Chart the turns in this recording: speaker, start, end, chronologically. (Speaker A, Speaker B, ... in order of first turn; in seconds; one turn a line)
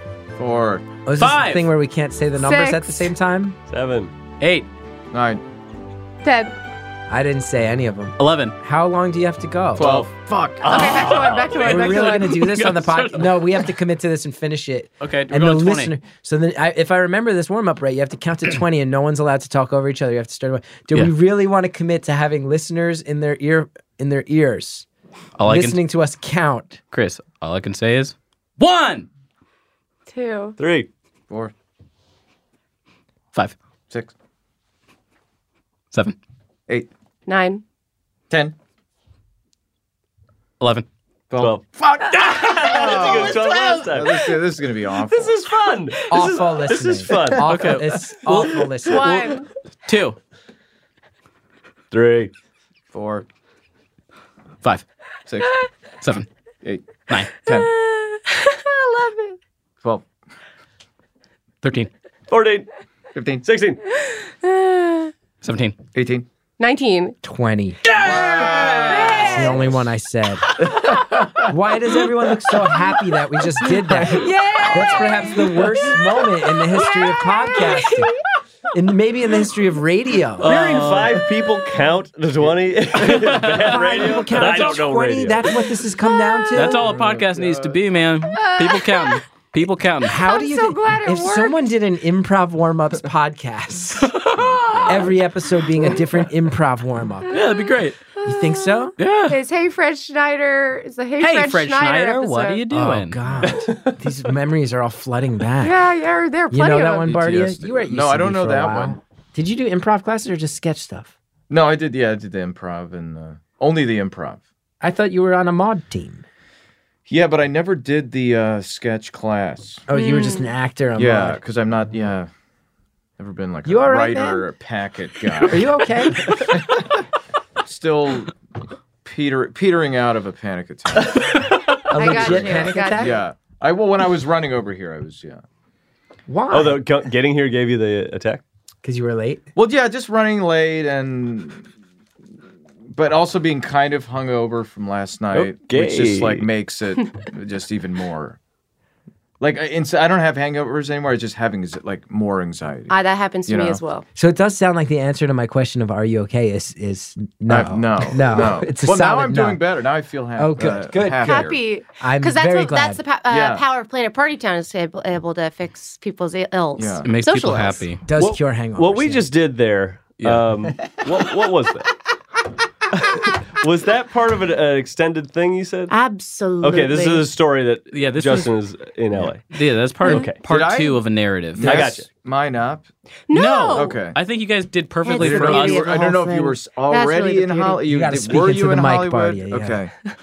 Speaker A: 0.4-0.9
Speaker B: 1.1-3.6
Speaker C: 1.2-1.7
Speaker D: 2.4-3.1
Speaker E: 3.7-4.1
Speaker C: 4.4-4.7
Speaker A: 5.1-5.4
Speaker D: 6.2-6.5
Speaker B: 7.1-10.1
Speaker C: 8.2-8.6
Speaker A: 9.8-11.2
Speaker E: 10.6-11.6
Speaker D: 10.6-12.3
Speaker C: 11.3-13.6
Speaker B: 11.6-24.9
Speaker C: 15.0-15.9
Speaker C: 25.4-25.8
Speaker B: 25.4-26.8
Speaker C: 26.9-29.1
Speaker D: 30.1-30.6
Speaker E: 30.6-30.9
Speaker D: 37.3-37.6
Speaker A: 38.3-38.5
Speaker C: 40.6-40.9
Speaker A: 41.3-45.4
Speaker E: 41.4-44.3
Speaker E: 45.1-47.5
Speaker B: 46.1-49.3
Speaker C: 47.5-48.2
Speaker D: 48.9-49.5
Speaker C: 49.9-50.2
Speaker E: 51.9-52.3
Speaker A: 52.9-53.3
Speaker A: 55.3-55.6
Speaker C: 56.0-56.3
Speaker A: 56.6-57.7
Speaker D: 57.5-59.4
Speaker C: 61.6-61.9
Speaker E: 62.3-62.7
Speaker A: 63.1-63.5
Speaker E: 63.4-63.8
Speaker D: 64.1-65.1
Speaker C: 65.4-65.8
Speaker A: 65.9-66.3
Speaker D: 66.6-67.2
Speaker B: 67.2-67.8
Speaker C: 67.9-69.5
Speaker A: 68.0-69.5
Speaker D: 68.9-69.7
Speaker B: 69.2-70.5
Speaker A: 71.2-71.5
Speaker B: 71.5-78.1
Speaker D: 74.2-75.7
Speaker C: 74.7-75.2
Speaker D: 76.7-78.1
Speaker B: 78.7-80.5
Speaker E: 80.4-85.5
Speaker C: 80.5-81.2
Speaker C: 83.1-84.8
Speaker B: 83.6-86.9
Speaker D: 86.0-86.7
Speaker C: 86.5-90.2
Speaker A: 86.7-87.8
Speaker D: 88.3-89.2
Speaker B: 90.0-94.2
Speaker D: 90.1-91.6
Speaker C: 94.1-95.1
Speaker A: 94.3-95.2
Speaker B: 94.9-97.5
Speaker C: 97.3-98.0
Speaker D: 98.2-102.6
Speaker B: 98.2-99.0
Speaker C: 99.0-99.4
Speaker C: 101.2-103.2
Speaker B: 102.7-105.8
Speaker E: 103.5-104.0
Speaker D: 105.6-107.1
Speaker B: 106.5-111.1
Speaker A: 107.0-109.0
Speaker A: 111.5-114.4
Speaker B: 114.8-116.2
Speaker A: 117.1-119.8
Speaker B: 119.9-121.4
Speaker D: 119.9-120.5
Speaker A: 121.0-122.3
Speaker A: 123.2-126.9
Speaker B: 123.7-124.4
Speaker B: 125.4-126.4
Speaker A: 127.6-128.3
Speaker A: 129.1-131.5
Speaker B: 131.9-133.2
Speaker D: 131.9-133.1
Speaker A: 132.0-135.4
Speaker B: 136.3-136.8
Speaker E: 136.5-138.4
Speaker B: 138.8-139.5
Speaker A: 139.6-141.7
Speaker A: 142.9-148.4
Speaker E: 145.3-146.5
Speaker A: 149.4-152.9
Speaker D: 152.9-154.1
Speaker A: 153.5-153.8
Speaker B: 154.2-159.6
Speaker A: 157.5-161.6
Speaker B: 160.4-163.0
Speaker D: 161.2-167.9
Speaker A: 163.3-163.6
Speaker A: 166.8-167.1
Speaker C: 167.1-168.0
Speaker B: 168.1-169.3
Speaker E: 168.2-171.9
Speaker C: 170.2-170.5
Speaker E: 172.9-175.9
Speaker D: 175.9-177.3
Speaker E: 176.6-179.4
Speaker C: 177.9-178.5
Speaker C: 179.5-181.9
Speaker E: 180.0-180.4
Speaker A: 180.5-181.0
Speaker A: 181.6-182.9
Speaker E: 181.6-182.1
Speaker D: 183.3-184.0
Speaker C: 183.3-185.9
Speaker A: 183.7-184.2
Speaker D: 185.1-187.8
Speaker A: 185.1-189.9
Speaker B: 187.9-189.8